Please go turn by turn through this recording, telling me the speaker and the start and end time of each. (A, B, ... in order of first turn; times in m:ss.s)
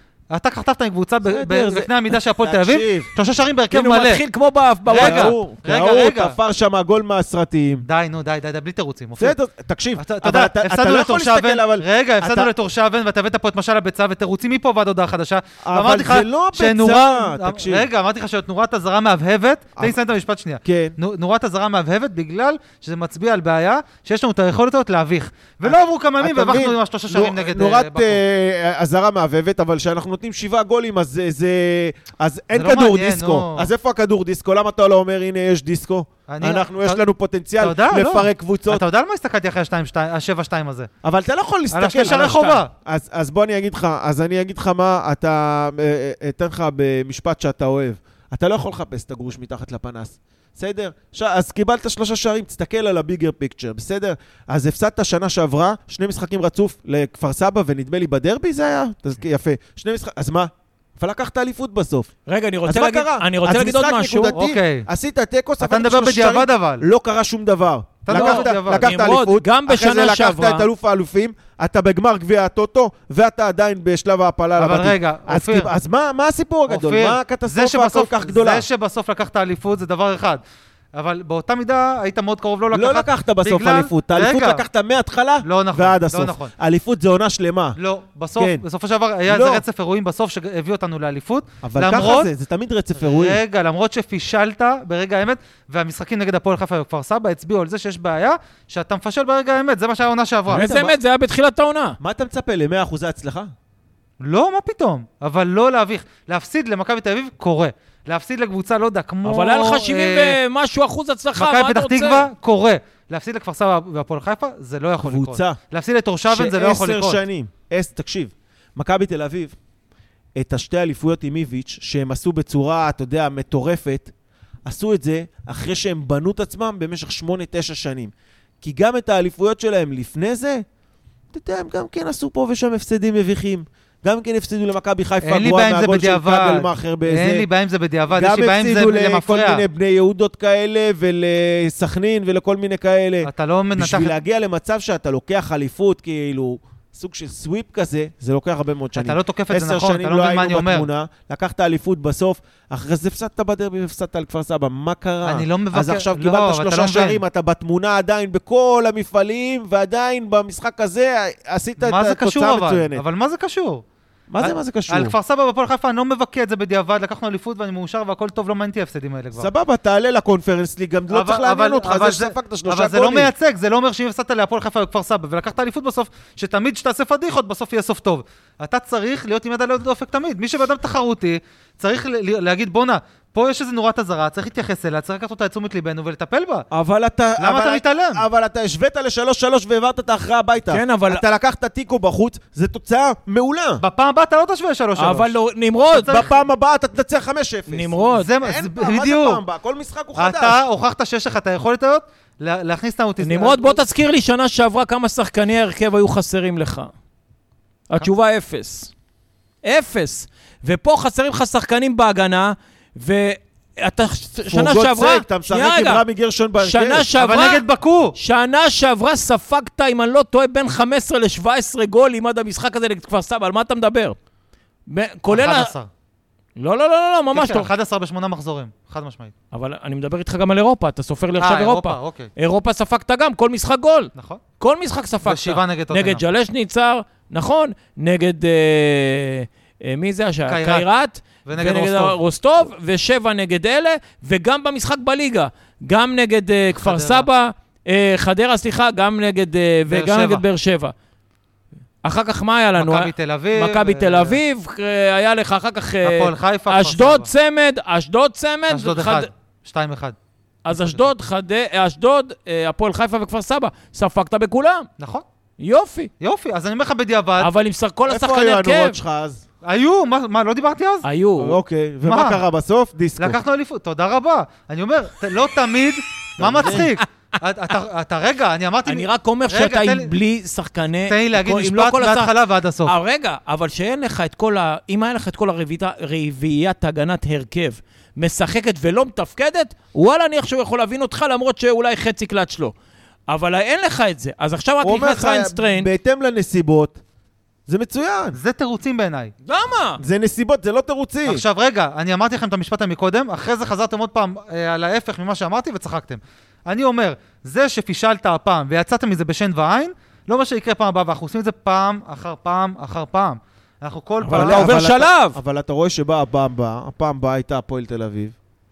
0:00.3-0:04.2 A
0:01.2-0:03.1 B
0:03.7-0:05.4 C
0:04.9-0:06.4 A
0:04.9-0:07.8 B
0:07.8-0:09.4 A
0:09.2-0:12.5 B
0:10.0-0:28.2 A
0:15.6-0:17.9 B
0:20.6-0:21.0 B
0:25.6-0:38.8 B
0:32.5-0:33.7 A
0:36.3-0:37.0 A
0:37.6-0:40.9 A
0:41.0-1:02.1 B
0:41.7-0:42.7 A
0:42.0-0:42.6 C
1:02.3-1:04.4 C
1:02.6-1:18.7 B
1:04.3-1:04.9 A
1:05.6-1:06.8 A
1:08.0-1:08.9 A
1:08.1-1:10.7 C
1:14.6-1:15.7 A
1:16.7-1:20.4 A
1:20.9-1:24.6 A
1:22.7-1:27.8 B
1:25.4-1:26.5 A
1:27.8-1:32.3 A
1:28.4-1:28.6 B
1:29.3-1:29.6 B
1:31.6-1:33.4 B
1:33.0-1:40.7 A
1:40.5-1:41.0 B
1:40.5-1:42.0 C
1:42.0-1:43.5 B
1:44.2-1:50.4 A
1:49.2-1:52.3 C
1:51.4-1:57.2 A
1:55.0-1:55.6 B
1:56.3-1:59.6 B
2:00.3-2:04.1 B
2:04.6-2:10.6 B
2:11.3-2:17.5 B
2:15.2-2:19.6 A
2:18.1-2:43.0 B
2:23.2-2:24.2 A
2:29.0-2:30.9 A
2:35.2-2:37.2 A
2:41.8-2:43.8 A
2:44.3-2:45.1 B
2:44.4-2:49.5 A
2:49.4-2:53.3 B
2:51.1-3:06.7 A
3:06.7-3:13.8 B
3:07.4-3:08.2 A
3:10.7-3:11.2 C
3:13.8-3:15.3 A
3:15.0-3:16.3 C
3:15.9-3:16.3 A
3:16.1-3:20.6 B
3:17.7-3:18.3 C
3:18.1-3:19.4 A
3:20.2-3:23.8 A
3:23.2-3:26.9 C
3:27.9-3:28.9 C
3:29.6-3:36.0 C
3:34.5-3:37.1 B
3:36.6-3:37.6 C
3:37.2-3:38.2 A
3:38.2-3:44.2 C
3:44.9-3:45.7 C
3:45.3-3:45.9 A
3:46.6-3:47.7 C
3:47.3-3:49.3 A
3:49.5-4:10.9 C
3:51.4-3:52.3 A
3:54.2-3:54.4 A
3:55.2-3:56.2 A
4:00.5-4:00.8 A
4:01.4-4:02.2 A
4:06.7-4:07.3 A
4:09.9-4:10.4 A
4:12.0-4:19.3 C
4:12.8-4:14.4 A
4:16.0-4:17.3 A
4:18.7-4:20.2 A
4:20.6-4:24.9 C
4:20.7-4:21.0 A
4:25.0-4:25.2 A
4:25.6-4:26.1 C
4:26.2-4:27.5 A
4:27.4-4:29.0 C
4:28.1-4:29.4 B
4:29.6-4:31.0 A
4:31.0-4:31.6 C
4:31.4-4:33.4 B
4:32.0-4:32.4 A
4:33.2-4:40.2 A
4:36.4-4:36.9 B
4:38.9-4:42.3 C
4:41.1-4:42.9 A
4:42.8-4:52.7 C
4:53.3-4:55.9 C
4:54.8-4:57.0 B
4:57.7-4:58.4 B
4:58.3-4:59.3 A
4:59.4-5:00.0 C
5:00.0-5:01.4 B
5:01.2-5:14.8 A
5:14.2-5:15.4 C
5:14.3-5:18.3 B